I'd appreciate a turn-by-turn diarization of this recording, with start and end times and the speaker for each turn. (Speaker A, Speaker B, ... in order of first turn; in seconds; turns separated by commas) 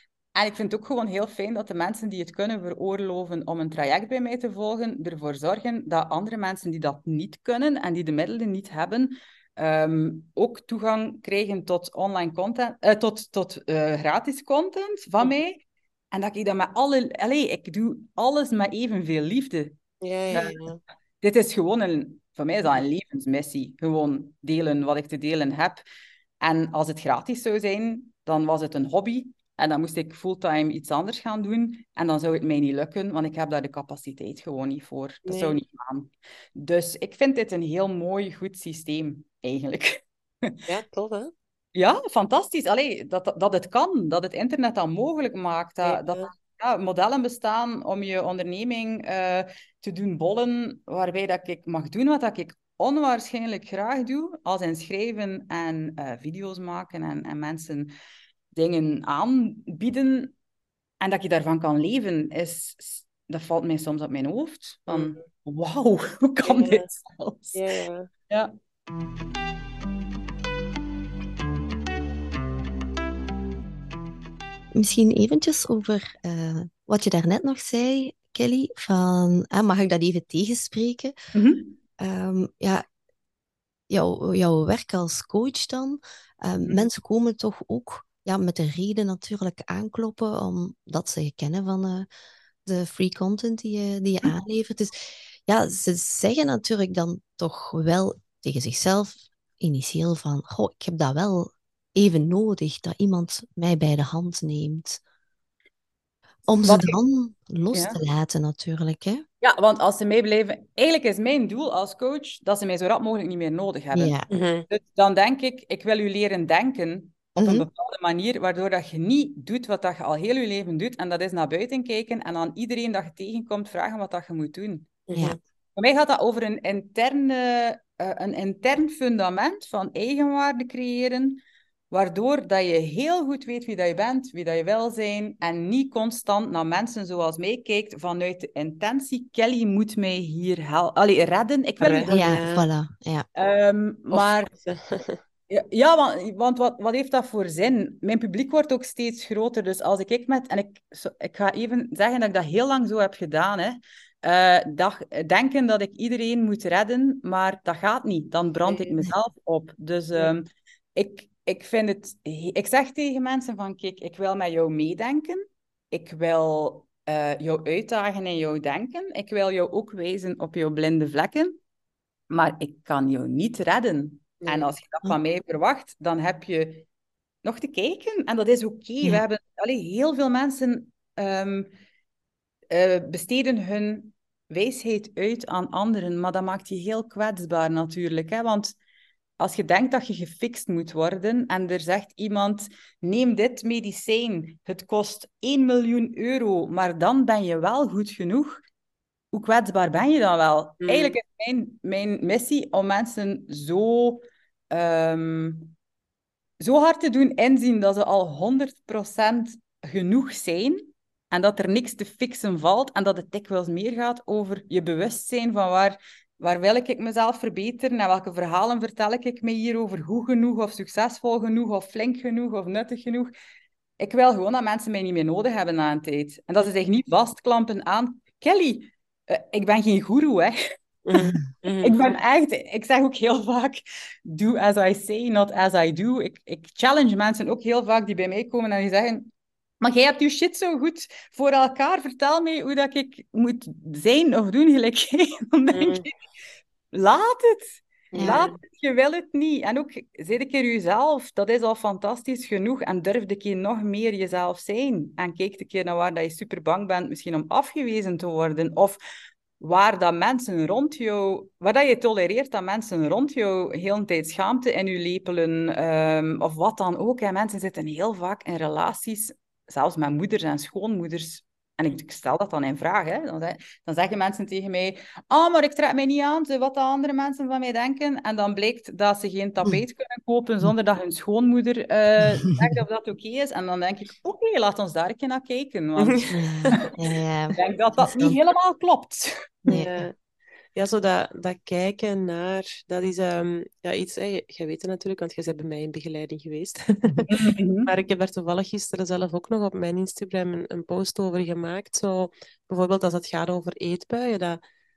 Speaker A: 0.3-15.6, Speaker A: 16.1-19.8, Speaker B: 20.0-20.8, Speaker A: 20.3-20.6, Speaker A: 21.2-25.8, Speaker A: 26.4-40.5, Speaker B: 35.2-35.5, Speaker B: 40.7-41.3, Speaker A: 41.7-57.9, Speaker B: 45.8-46.3, Speaker A: 58.5-60.3, Speaker A: 61.0-67.6, Speaker B: 64.9-65.2, Speaker B: 66.4-66.9, Speaker B: 67.5-68.1, Speaker C: 74.7-81.1, Speaker A: 81.3-81.8, Speaker C: 82.0-82.8, Speaker C: 83.9-92.1, Speaker A: 86.6-86.9, Speaker C: 92.6-105.0, Speaker C: 106.5-109.2, Speaker A: 106.6-107.0, Speaker A: 107.7-108.0, Speaker A: 109.4-114.2, Speaker C: 113.9-114.3, Speaker B: 114.3-114.7, Speaker A: 114.7-124.9, Speaker C: 117.3-117.7, Speaker B: 125.1-125.4, Speaker A: 125.8-142.4, Speaker B: 141.8-142.6, Speaker C: 142.1-143.2, Speaker A: 143.3-144.5, Speaker B: 144.1-145.2, Speaker A: 145.5-171.6, Speaker A: 172.3-176.8, Speaker B: 174.4-174.7, Speaker A: 177.4-181.7, Speaker A: 182.7-188.8, Speaker A: 189.4-198.6, Speaker A: 199.3-205.7, Speaker B: 200.8-201.2, Speaker A: 206.6-223.3, Speaker A: 224.0-246.1, Speaker B: 231.1-232.0, Speaker B: 245.7-246.1, Speaker A: 246.9-259.0, Speaker C: 248.1-248.4, Speaker B: 248.1-248.5, Speaker A: 259.6-286.2, Speaker B: 286.0-286.8, Speaker C: 286.3-288.4, Speaker A: 287.5-289.6, Speaker C: 289.6-290.1, Speaker B: 289.7-290.1, Speaker B: 290.7-304.6, Speaker A: 297.3-297.9